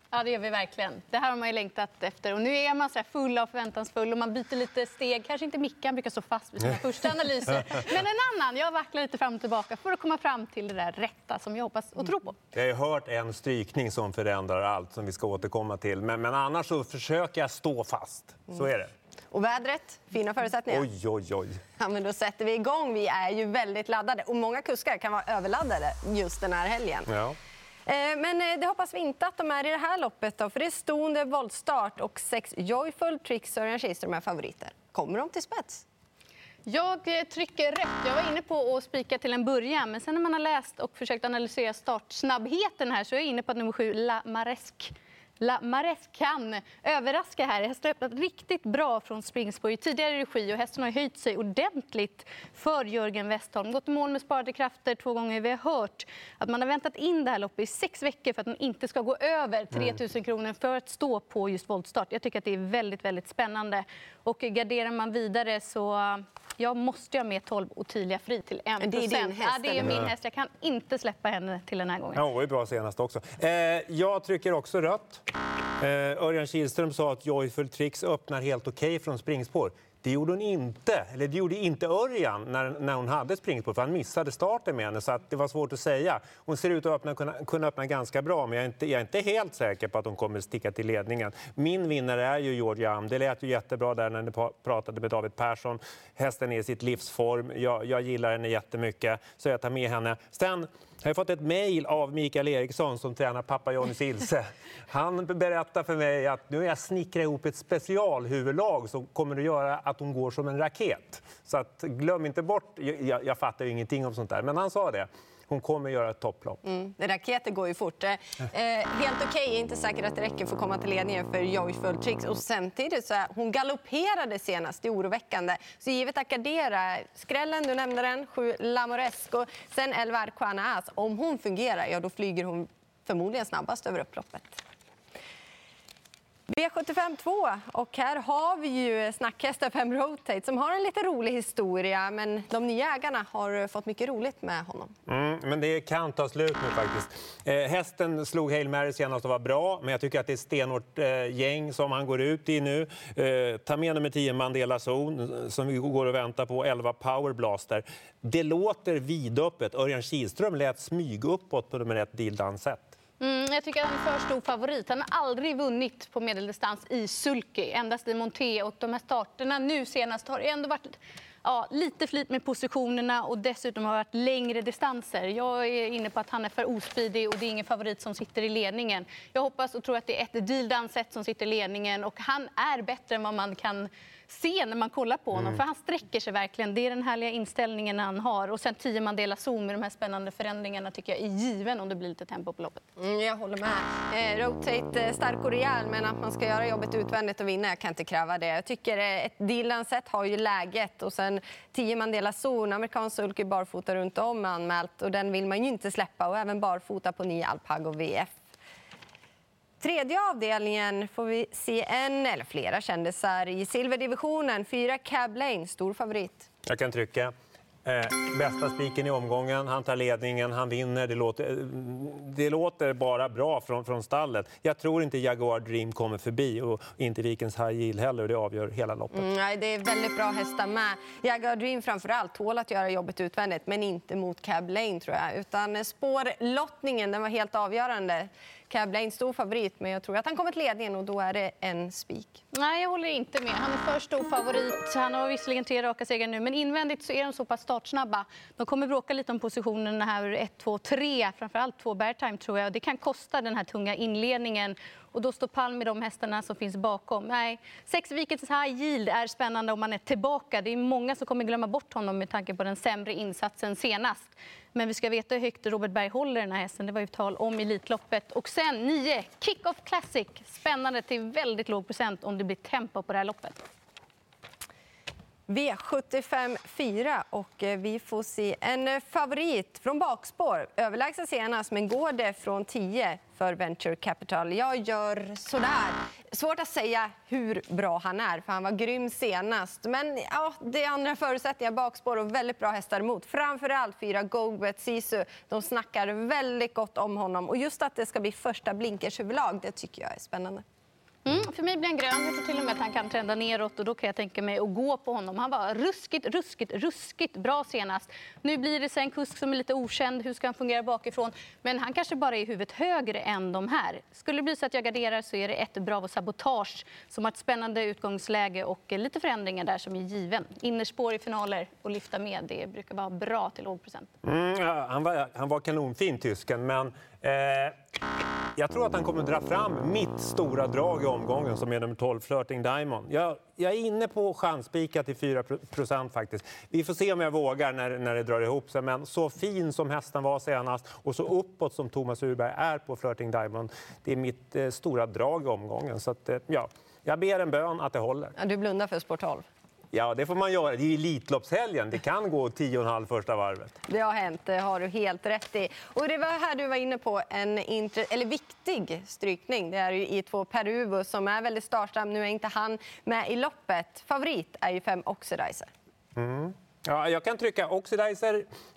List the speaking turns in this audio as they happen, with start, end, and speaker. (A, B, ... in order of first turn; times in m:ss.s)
0:00.1-0:12.4 A
0:12.5-0:18.9 B
0:19.3-0:20.8 C
0:20.7-0:21.6 B
0:21.8-0:27.1 C
0:27.1-0:27.4 B
0:27.8-0:35.8 C
0:36.6-1:12.2 A
1:08.8-1:10.0 C
1:09.8-1:10.1 B
1:12.1-1:15.2 B
1:15.8-1:56.6 B
1:56.6-2:14.6 C
2:16.5-2:24.9 C
2:25.1-2:42.9 B
2:43.2-3:12.8 A
3:13.0-3:28.3 C
3:29.8-3:36.5 C
3:36.6-3:37.3 B
3:37.8-3:49.3 B
3:49.1-4:02.4 C
4:02.5-4:33.6 A
4:35.5-5:00.6 C
5:01.2-5:24.1 A
5:24.2-5:27.7 B
5:28.6-5:48.3 B
5:48.4-5:49.4 C
5:49.9-5:53.8 B
5:53.9-6:05.7 C
6:06.2-6:08.5 B